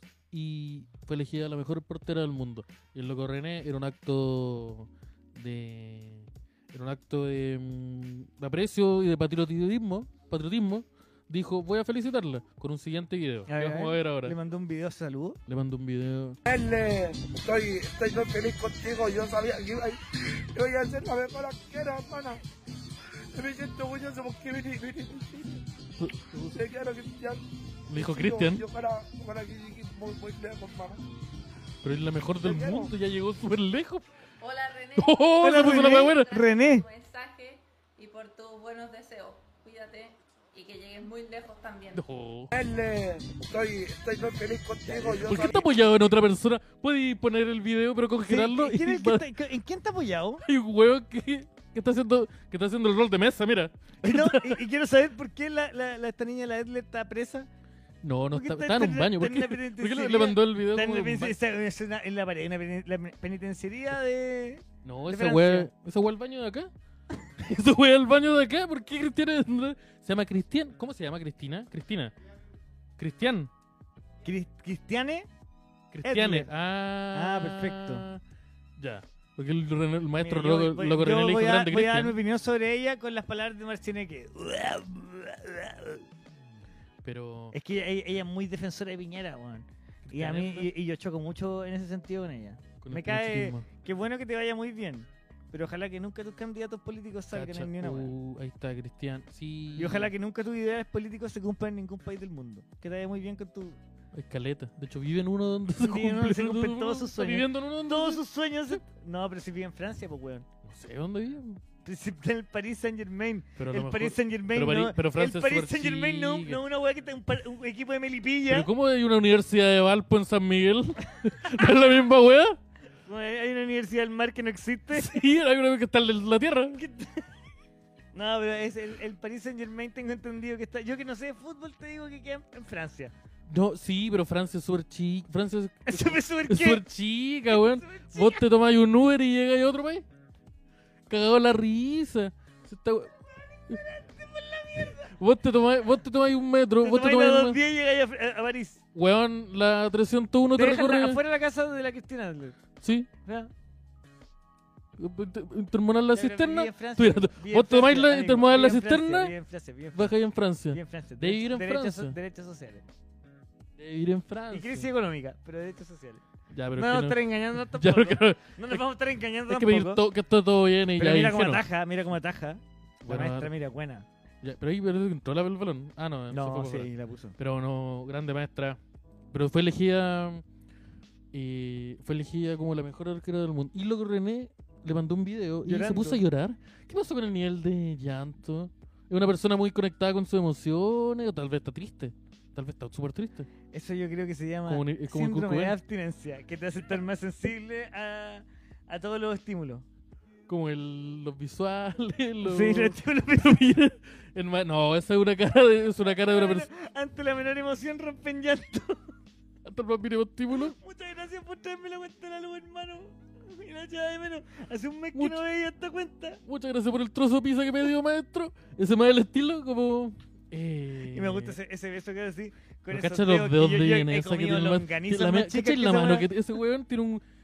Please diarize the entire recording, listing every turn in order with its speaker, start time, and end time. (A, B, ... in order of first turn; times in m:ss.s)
0:00.3-0:14.4 A
0:13.5-0:15.4 B
0:15.5-0:16.4 A
0:16.5-0:22.4 C
0:23.3-0:25.6 C
0:26.0-0:26.6 A
0:26.5-0:31.0 C
0:27.9-0:28.7 A
0:31.8-0:34.1 A
0:32.4-0:32.9 C
0:34.4-0:42.0 D
0:35.0-0:36.3 A
0:35.4-0:36.9 B
0:41.9-0:42.5 A
0:42.5-0:45.7 C
0:44.9-0:45.4 B
0:45.0-0:49.2 A
0:48.3-0:50.4 B
0:50.4-0:54.6 A
0:54.0-0:57.5 B
0:58.0-1:01.4 A
0:58.3-1:05.7 B
1:04.8-1:06.7 A
1:07.4-1:12.1 A
1:13.0-1:13.5 A
1:14.2-1:15.3 B
1:15.9-1:18.2 A
1:16.0-1:16.5 B
1:17.1-1:18.1 B
1:18.8-1:22.2 A
1:20.2-1:26.1 B
1:27.0-1:27.6 A
1:27.5-1:38.1 B
1:30.0-1:30.7 A
1:32.8-1:33.7 A
1:37.3-1:40.1 A
1:39.8-1:43.8 B
1:44.1-1:48.2 A
1:45.8-1:50.5 B
1:50.6-1:51.6 A
1:51.8-1:58.7 B
1:53.6-1:56.6 A
1:58.5-2:02.6 A
2:03.1-2:05.2 B
2:04.9-2:06.8 A
2:06.7-2:07.3 B
2:08.1-2:13.1 B
2:13.5-2:20.1 A
2:15.9-2:16.8 B
2:17.5-2:18.4 B
2:21.1-2:23.1 A
2:23.7-2:25.1 B
2:25.0-2:27.6 A
2:26.8-2:28.8 B
2:29.0-2:31.2 A
2:30.5-2:32.6 B
2:32.8-2:33.1 A
2:33.2-2:33.5 B
2:35.0-2:39.3 A
2:36.1-2:40.1 B
2:39.9-2:42.2 A
2:40.7-2:42.8 B
2:43.8-2:44.9 A
2:44.5-2:46.2 B
2:46.5-2:48.8 A
2:46.8-2:50.0 B
2:49.5-2:51.6 A
2:51.0-2:54.1 B
2:53.0-2:53.5 A
2:54.4-2:58.8 A
2:56.3-2:57.4 B
2:59.3-3:00.4 A
3:01.3-3:13.5 A
3:05.6-3:06.2 B
3:13.7-3:19.8 B
3:14.7-3:15.8 A
3:20.5-3:26.7 A
3:22.4-3:23.7 B
3:26.2-3:29.2 B
3:29.6-3:30.8 A
3:30.5-3:36.4 B
3:35.2-3:35.4 A
3:36.5-3:41.6 A
3:41.1-3:46.3 B
3:42.9-3:47.2 A